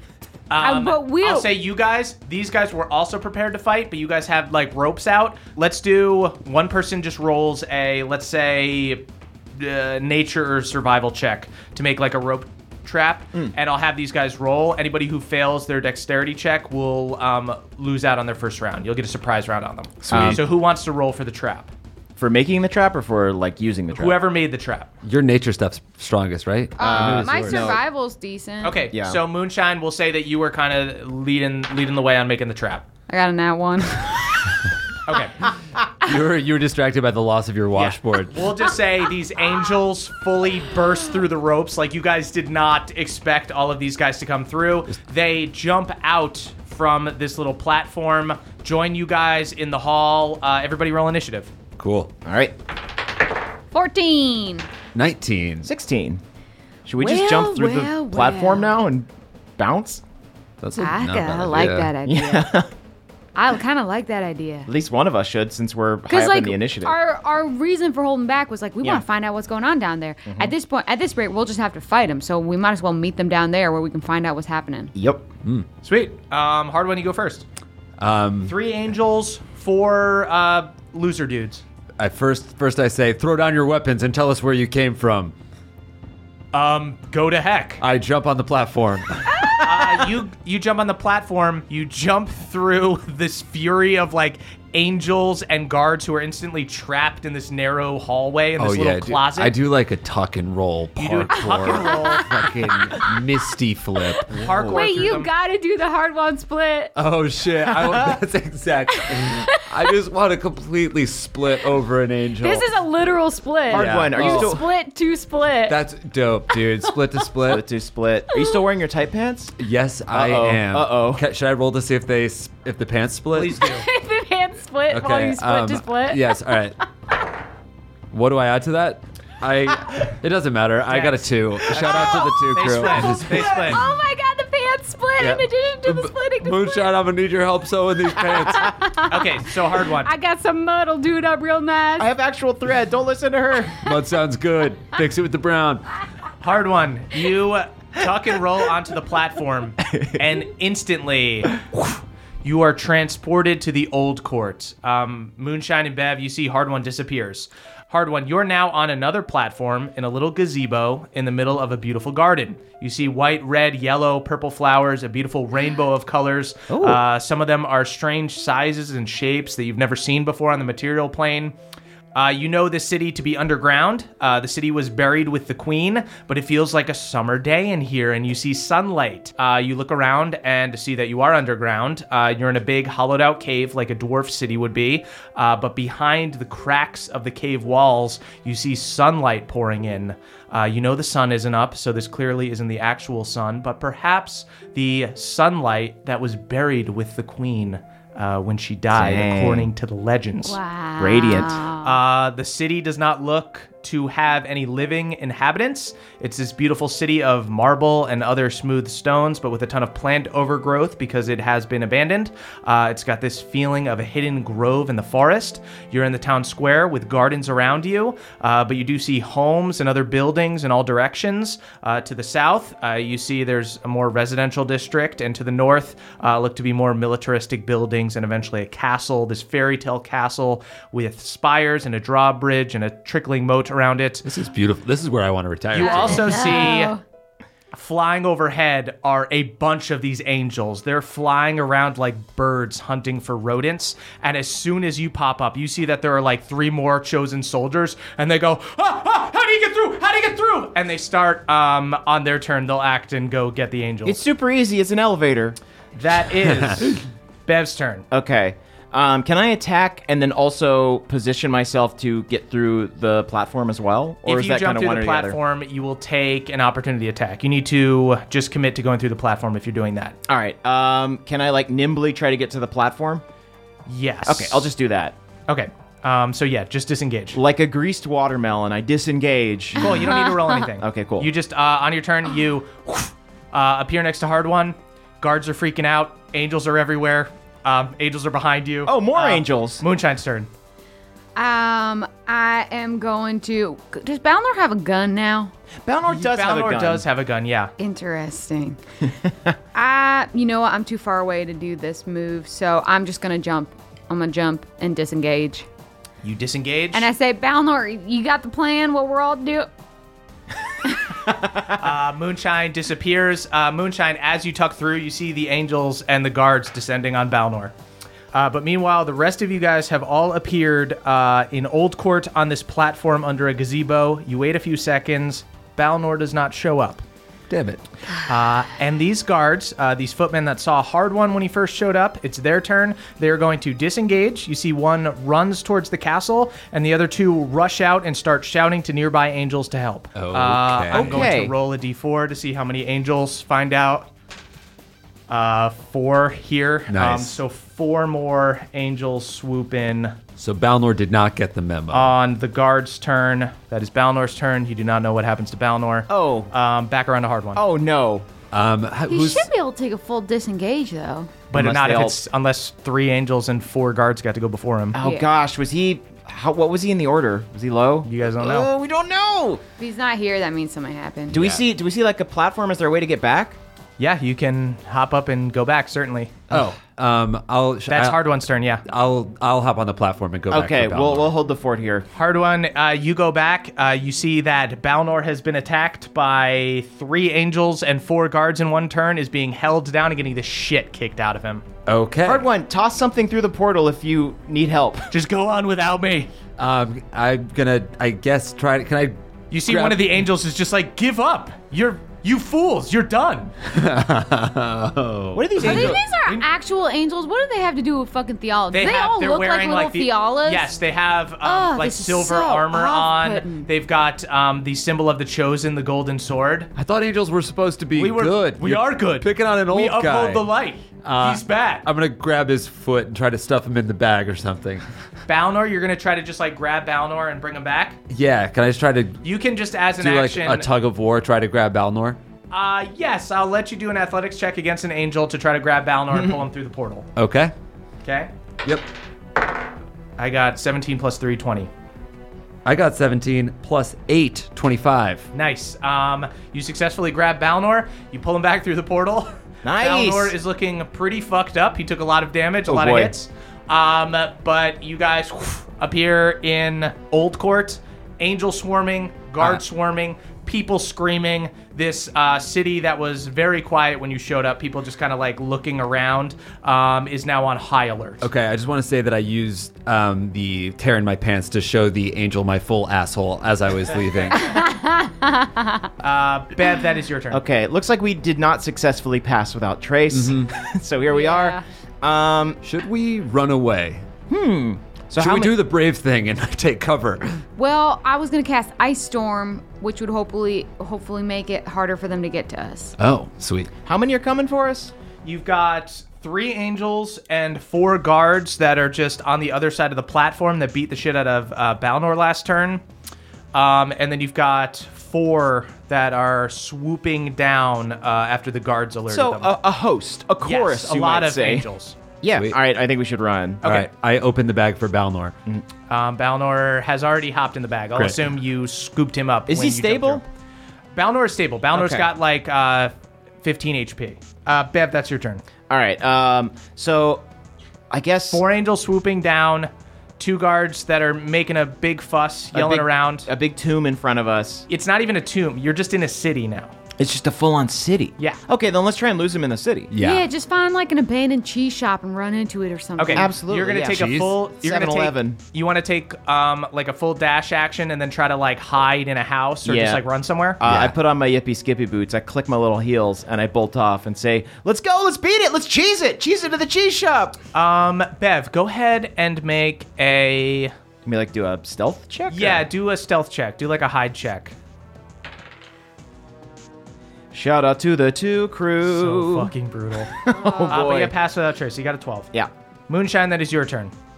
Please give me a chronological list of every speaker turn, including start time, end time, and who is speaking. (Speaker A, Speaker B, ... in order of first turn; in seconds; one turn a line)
Speaker A: 0.5-9.0
Speaker B: 0.6-1.5
Speaker A: 9.6-21.7
Speaker C: 20.0-20.4
Speaker D: 20.1-20.4
Speaker D: 22.2-24.2
Speaker A: 23.9-24.9
Speaker C: 25.0-27.8
Speaker B: 26.8-28.8
Speaker D: 26.8-27.8
Speaker A: 28.6-32.9
Speaker D: 28.9-29.2
Speaker B: 33.1-34.5
Speaker A: 35.1-35.5
Speaker C: 36.0-38.3
Speaker A: 38.3-51.5
Speaker C: 51.8-52.1
Speaker D: 52.2-52.6
Speaker B: 53.7-54.7
Speaker C: 55.0-55.7
Speaker D: 55.6-56.2
Speaker D: 56.9-60.0
Speaker B: 57.0-58.8
Speaker C: 60.6-61.9
Speaker B: 60.8-62.5
Speaker D: 62.1-62.7
Speaker B: 63.4-64.7
Speaker D: 64.7-67.0
Speaker B: 66.1-74.9
Speaker D: 70.3-70.5
Speaker D: 75.0-75.3
Speaker A: 75.8-77.5
Speaker C: 78.0-78.5
Speaker A: 78.5-81.6
Speaker C: 82.0-85.3
Speaker A: 86.5-87.8
Speaker C: 87.8-89.6
Speaker A: 89.6-99.5
Speaker C: 98.6-105.0
Speaker A: 101.0-102.4
Speaker B: 101.4-103.2
Speaker B: 104.2-107.0
Speaker A: 104.3-105.3
Speaker C: 107.0-112.7
Speaker D: 107.7-108.2
Speaker B: 109.0-109.9
Speaker B: 112.4-115.8
Speaker C: 113.7-114.6
Speaker D: 113.7-114.7
Speaker C: 115.7-117.6
Speaker B: 116.8-117.2
Speaker D: 117.5-119.5
Speaker C: 119.6-123.6
Speaker D: 120.1-121.2
Speaker A: 123.3-123.9
Speaker B: 123.6-126.8
Speaker C: 124.9-126.8
Speaker C: 128.1-133.8
Speaker A: 130.9-133.8
Speaker B: 131.8-136.9
Speaker C: 135.2-138.8
Speaker B: 138.2-142.1
Speaker A: 139.1-140.1
Speaker D: 142.0-143.8
Speaker C: 143.8-145.8
Speaker A: 146.4-151.7
Speaker A: 152.4-171.5
Speaker D: 166.7-167.0
Speaker A: 172.2-200.6
Speaker D: 198.9-199.7
Speaker B: 200.5-202.0
Speaker D: 201.0-201.6
Speaker A: 201.8-234.3
Speaker C: 234.2-236.7
Speaker A: 235.7-236.9
Speaker B: 235.8-237.0
Speaker A: 237.7-254.2
Speaker D: 254.1-255.6
Speaker A: 255.9-258.1
Speaker C: 256.4-257.0
Speaker D: 258.1-265.4
Speaker A: 264.3-270.2
Speaker D: 270.3-273.2
Speaker A: 273.9-274.7
Speaker D: 274.2-275.2
Speaker A: 275.5-277.4
Speaker D: 277.3-280.1
Speaker A: 279.8-290.5
Speaker D: 280.7-281.3
Speaker D: 288.9-289.8
Speaker B: 291.4-295.5
Speaker D: 295.9-297.1
Speaker A: 296.1-297.7
Speaker B: 297.8-298.8
Speaker B: 299.7-305.7
Speaker A: 306.2-307.1
Speaker B: 306.9-309.7
Speaker A: 311.7-317.7
Speaker A: 318.3-327.0
Speaker C: 327.5-327.8
Speaker A: 328.3-344.1
Speaker C: 340.1-341.3
Speaker D: 340.9-341.6
Speaker A: 345.3-350.2
Speaker C: 346.9-347.4
Speaker C: 350.4-352.1
Speaker A: 351.9-357.6
Speaker D: 356.1-356.5
Speaker D: 357.6-358.3
Speaker C: 358.5-359.5
Speaker B: 359.1-361.3
Speaker A: 361.5-365.0
Speaker D: 361.5-362.2
Speaker D: 364.9-369.6
Speaker B: 365.0-365.3
Speaker A: 368.1-368.7
Speaker B: 369.8-371.4
Speaker D: 371.3-373.6
Speaker C: 371.3-371.6
Speaker A: 374.0-376.5
Speaker C: 376.5-378.2
Speaker A: 377.9-378.8
Speaker C: 378.9-381.3
Speaker D: 380.5-382.1
Speaker A: 382.1-391.6
Speaker C: 391.9-392.5
Speaker D: 392.2-395.1
Speaker A: 395.1-396.3
Speaker C: 396.6-400.2
Speaker A: 399.5-403.5
Speaker C: 403.7-406.0
Speaker D: 405.3-406.0
Speaker B: 405.6-410.7
Speaker A: 405.7-406.5
Speaker A: 408.7-416.7
Speaker B: 411.4-413.7
Speaker C: 416.8-420.5
Speaker A: 418.0-421.9
Speaker C: 421.0-424.8
Speaker A: 425.3-428.0
Speaker C: 428.1-429.2
Speaker A: 429.2-430.7
Speaker C: 430.0-432.2
Speaker A: 432.5-437.1
Speaker C: 437.2-437.5
Speaker A: 438.0-438.3
Speaker A: 440.2-441.7
Speaker C: 442.6-445.3
Speaker A: 445.3-468.3
Speaker D: 449.6-450.4
Speaker D: 452.7-453.1
Speaker C: 468.2-474.6
Speaker B: 474.4-475.9
Speaker A: 476.0-477.4
Speaker D: 477.3-482.6
Speaker C: 480.1-480.5
Speaker B: 481.1-481.6
Speaker C: 482.6-484.1
Speaker D: 484.3-485.6
Speaker C: 485.2-487.4
Speaker B: 487.6-492.9
Speaker C: 493.0-493.7
Speaker D: 493.9-494.9
Speaker A: 495.2-502.8
Speaker A: 503.5-509.6
Speaker D: 509.1-511.7
Speaker A: 510.4-512.0
Speaker D: 512.2-513.6
Speaker A: 513.6-513.9
Speaker C: 513.6-515.4
Speaker A: 515.9-520.2
Speaker D: 519.5-520.2
Speaker A: 520.9-522.9
Speaker D: 521.7-522.1
Speaker A: 523.4-525.4
Speaker D: 525.7-527.2
Speaker D: 527.9-528.4
Speaker A: 528.3-533.3
Speaker D: 532.5-534.7
Speaker A: 534.7-536.7
Speaker D: 537.0-539.9
Speaker C: 539.9-540.2
Speaker B: 540.0-543.3
Speaker A: 543.0-550.6
Speaker D: 543.1-545.4
Speaker C: 543.8-544.4
Speaker D: 549.6-550.0
Speaker D: 550.6-557.4
Speaker C: 550.6-551.0
Speaker A: 557.5-560.7
Speaker D: 561.0-562.7
Speaker A: 562.3-564.5
Speaker D: 567.3-569.5
Speaker A: 568.9-570.1
Speaker D: 570.1-571.1
Speaker B: 570.3-570.8
Speaker A: 570.7-572.3
Speaker A: 572.9-573.9